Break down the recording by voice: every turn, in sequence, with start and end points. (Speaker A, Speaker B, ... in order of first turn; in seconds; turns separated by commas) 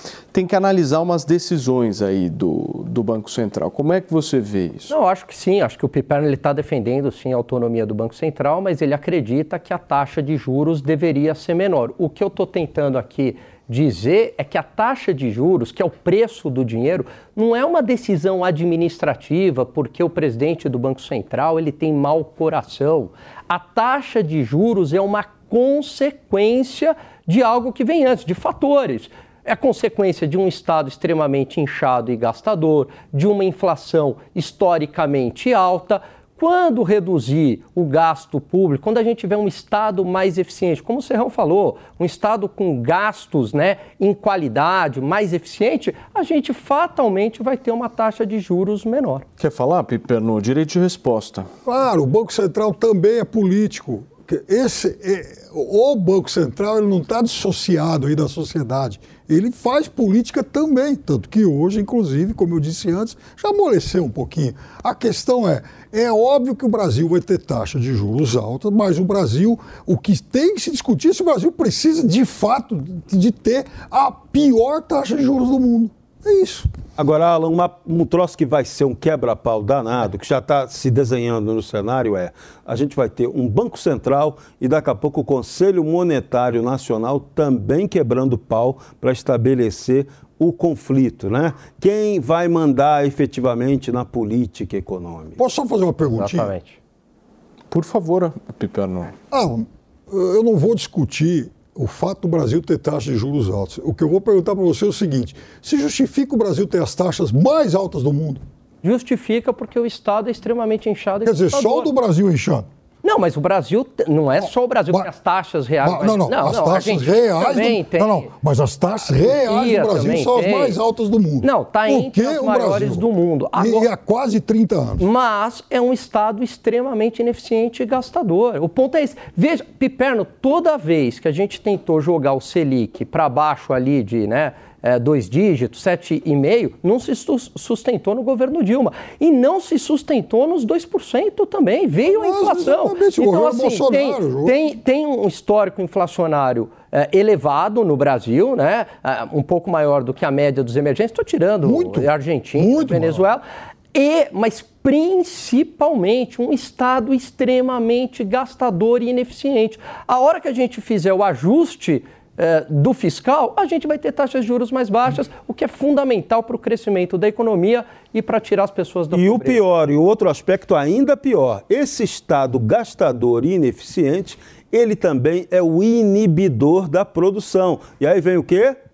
Speaker A: 0.3-4.9, Speaker B: 4.9-49.2, Speaker A: 49.4-51.5, Speaker C: 51.6-76.7, Speaker D: 77.0-95.4, Speaker C: 95.4-96.5, Speaker B: 96.0-96.8, Speaker A: 97.7-99.1, Speaker C: 99.3-108.4, Speaker B: 108.8-111.9, Speaker C: 111.2-112.7, Speaker B: 113.0-118.3, Speaker C: 114.4-115.1, Speaker C: 115.8-125.0, Speaker B: 119.0-120.8, Speaker B: 121.4-123.9, Speaker B: 125.0-169.6, Speaker C: 142.0-144.6, Speaker C: 151.6-153.2, Speaker D: 169.1-178.8